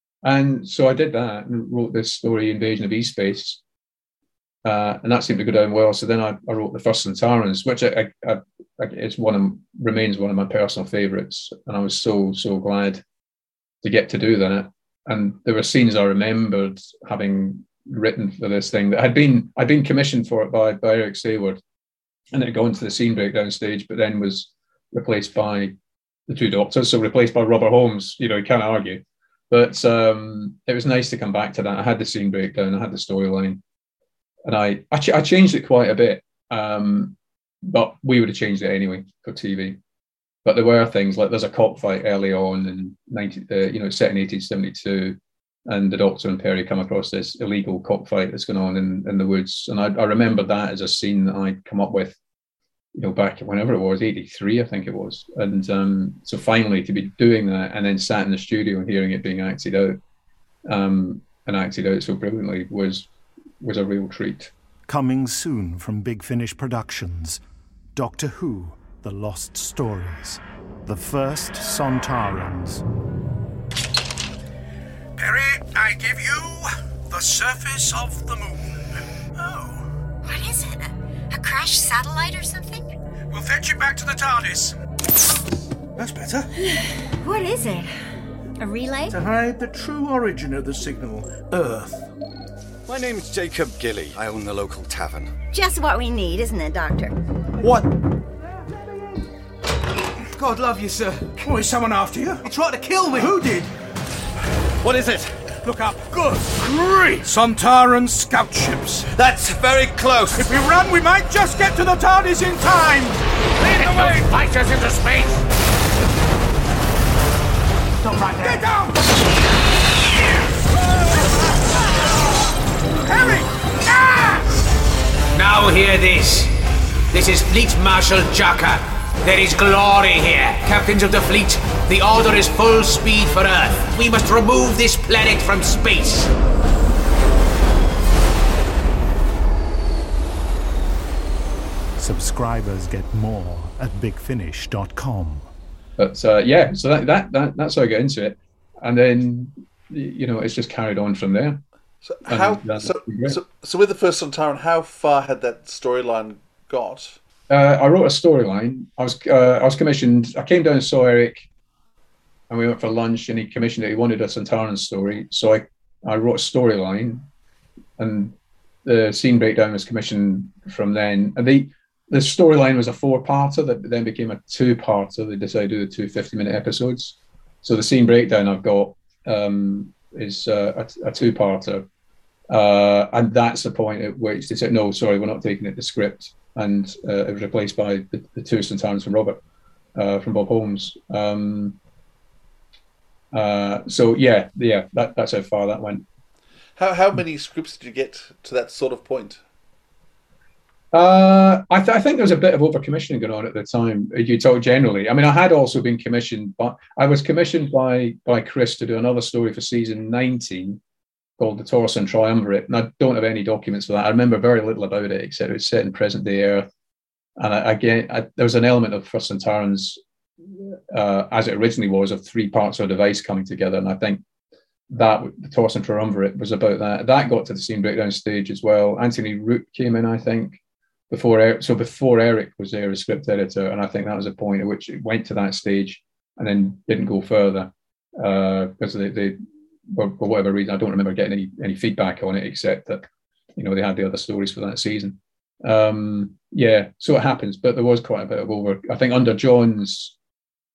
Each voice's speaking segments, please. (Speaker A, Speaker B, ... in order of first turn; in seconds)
Speaker A: 0.2-3.6, 4.6-13.0, 13.8-21.6, 22.3-25.7, 26.3-33.6, 34.5-39.8, 40.4-52.2, 52.9-60.0, 60.7-63.1, 63.6-64.5, 146.0-151.6, 152.3-153.4, 157.5-161.5, 162.5-167.2, 168.0-181.8, 182.5-189.4, 189.9-191.8, 193.3-196.1, 200.9-210.8, 211.4-216.7, 217.4-220.0, 220.6-224.2, 224.9-230.6, 231.1-239.4, 239.9-250.1
Speaker B: 64.9-67.4, 68.0-72.8, 142.0-145.5
Speaker C: 80.2-82.9, 87.2-87.9, 88.6-89.2, 95.5-97.2
Speaker D: 83.4-84.7, 86.0-86.5, 89.2-91.9, 97.6-97.9, 101.5-102.5, 103.2-103.6, 105.7-109.1, 110.3-113.2, 113.8-114.2
Speaker E: 92.9-95.3
Speaker F: 125.3-126.5, 127.1-136.3
Speaker G: 152.0-157.2, 196.8-199.4